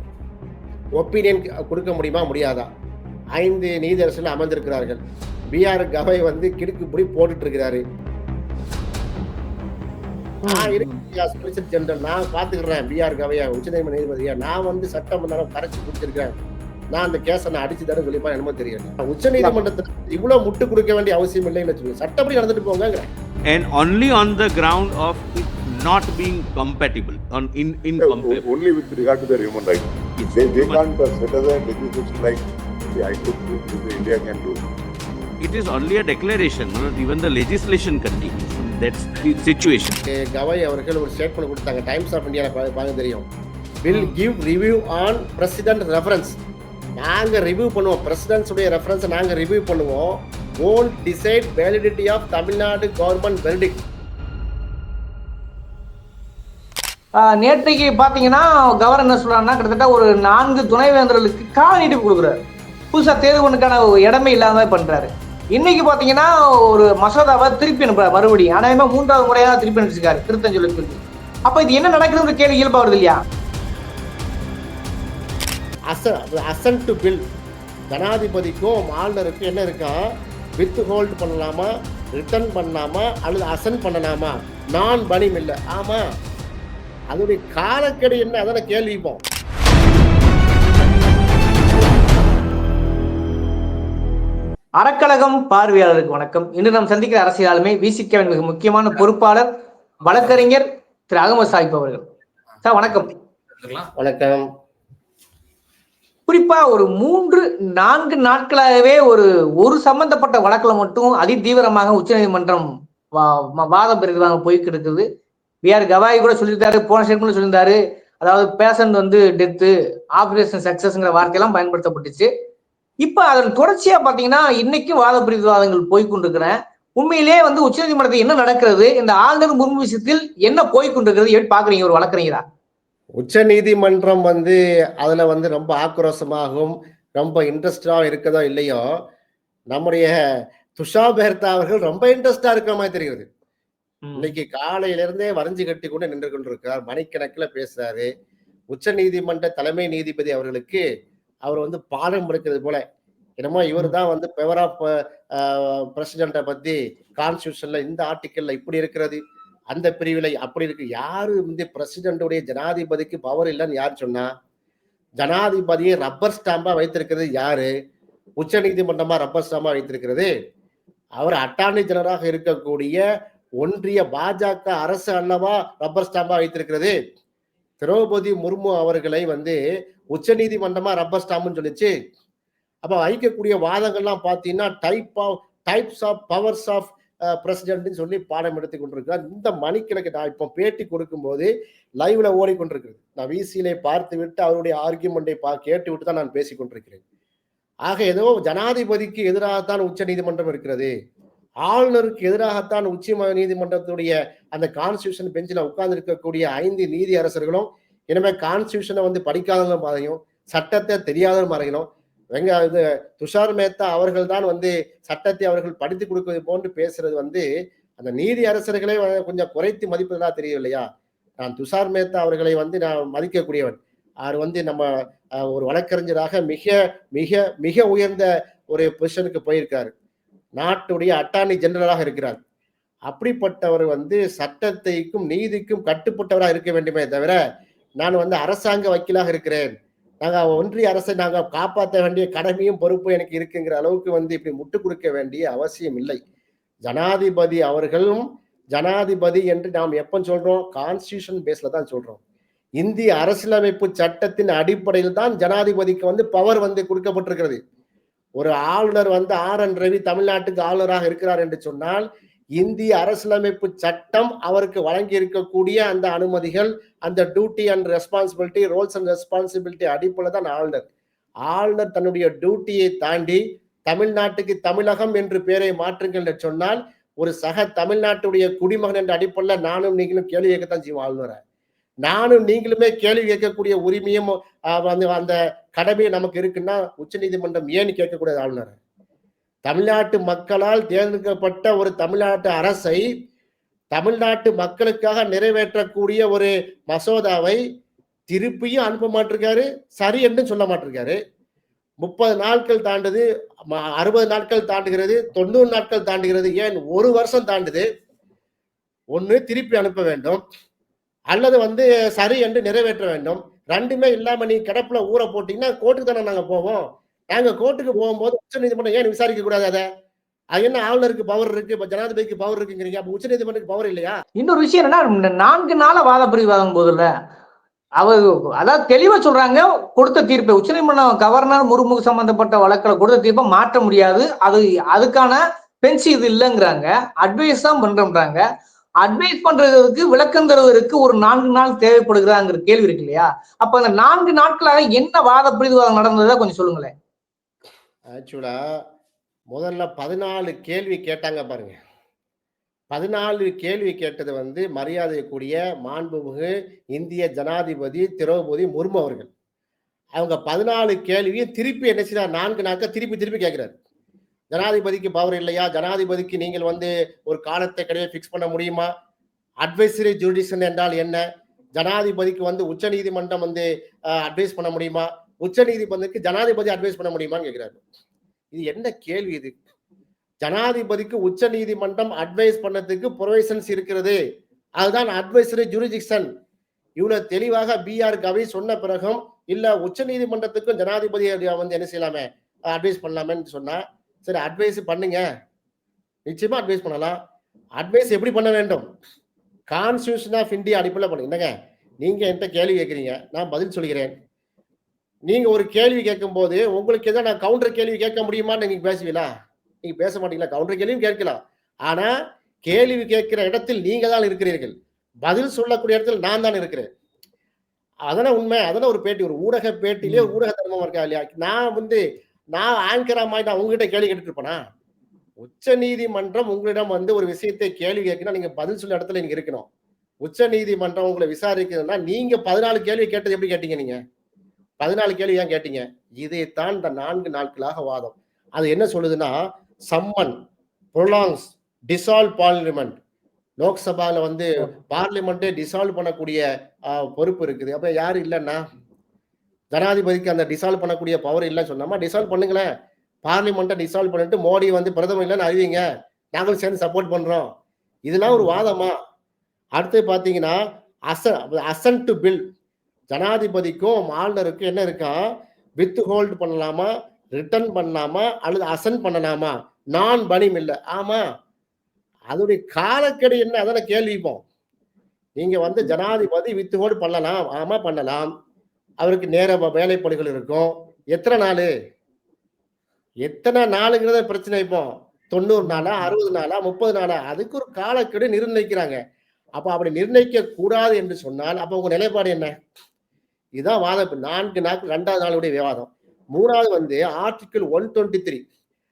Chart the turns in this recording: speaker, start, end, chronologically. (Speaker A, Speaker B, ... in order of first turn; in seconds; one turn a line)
Speaker A: 1.0-2.7
Speaker A: 3.4-5.0
Speaker A: 5.5-7.8
Speaker A: 10.5-16.4
Speaker B: 10.5-11.0
Speaker A: 16.9-23.1
Speaker C: 23.5-28.5
Speaker D: 28.0-34.6
Speaker C: 30.2-30.8
Speaker C: 35.4-40.0
Speaker A: 40.0-43.3
Speaker A: 43.8-46.4
Speaker B: 43.9-44.2
Speaker A: 47.0-53.8
Speaker B: 57.2-62.4
Speaker B: 62.9-73.2
Speaker A: 75.9-77.2
Speaker A: 77.9-86.0
Speaker A: 87.1-89.2
Speaker B: 94.8-99.5
Speaker B: 100.0-102.0
Speaker B: 102.6-103.2
Speaker A: 104.0-104.5
Speaker B: 106.3-115.1
Speaker B: 115.6-122.3
Speaker B: 123.0-132.4
Speaker A: 133.2-138.8
Speaker A: 139.7-140.1
Speaker A: 140.8-143.2
Speaker B: 144.1-144.3
Speaker A: 144.2-148.1
Speaker A: 148.7-150.8
Speaker A: 151.4-152.8
Speaker A: 153.4-159.2
Speaker A: 159.7-164.3
Speaker A: 165.2-167.7
Speaker A: 168.4-170.3
Speaker A: 171.2-173.0
Speaker A: 173.6-176.9
Speaker A: 177.8-179.6
Speaker A: 180.1-181.9
Speaker A: 182.8-191.5
Speaker A: 192.0-197.0
Speaker A: 197.9-200.9
Speaker A: 201.7-217.4
Speaker A: 218.0-220.9
Speaker A: 221.4-224.9
Speaker A: 225.5-229.9
Speaker A: 230.6-232.4
Speaker A: 233.1-237.4
Speaker A: 238.0-246.2
Speaker A: 246.9-252.2
Speaker A: 252.8-257.6
Speaker A: 258.4-262.1
Speaker A: 262.6-270.9
Speaker A: 271.5-281.4
Speaker A: 282.1-288.8
Speaker A: 289.7-293.1
Speaker A: 293.9-297.6
Speaker A: 298.3-301.2
Speaker A: 302.0-307.9
Speaker A: 309.1-310.4
Speaker A: 311.3-319.9
Speaker A: 320.5-324.1
Speaker B: 324.4-327.1
Speaker B: 328.0-338.4
Speaker B: 339.0-346.9
Speaker A: 348.1-348.6
Speaker A: 349.5-351.8
Speaker A: 352.9-359.3
Speaker A: 360.2-363.7
Speaker A: 364.5-368.9
Speaker A: 369.6-371.2
Speaker A: 371.8-373.7
Speaker A: 374.2-377.8
Speaker A: 378.5-379.6
Speaker A: 380.4-384.2
Speaker A: 384.8-386.3
Speaker A: 387.0-395.2
Speaker A: 396.3-397.2
Speaker A: 397.8-398.9
Speaker A: 399.7-401.5
Speaker A: 402.0-404.1
Speaker A: 405.3-409.3
Speaker A: 409.8-412.1
Speaker A: 412.7-414.7
Speaker A: 415.2-416.9
Speaker A: 418.1-422.0
Speaker B: 420.0-420.4
Speaker A: 422.5-424.6
Speaker A: 425.4-429.7
Speaker A: 430.2-434.0
Speaker A: 434.8-439.4
Speaker A: 439.9-440.3
Speaker A: 440.9-442.9
Speaker A: 443.6-448.6
Speaker A: 449.7-452.7
Speaker A: 453.2-455.8
Speaker A: 456.3-457.5
Speaker A: 458.1-458.9
Speaker B: 458.3-458.6
Speaker A: 459.8-460.6
Speaker A: 461.1-462.4
Speaker A: 463.1-465.2
Speaker A: 465.8-471.2
Speaker A: 472.3-474.4
Speaker A: 475.4-478.3
Speaker A: 479.0-481.7
Speaker A: 483.2-489.0
Speaker B: 485.6-486.1
Speaker A: 489.6-492.6
Speaker A: 493.6-498.4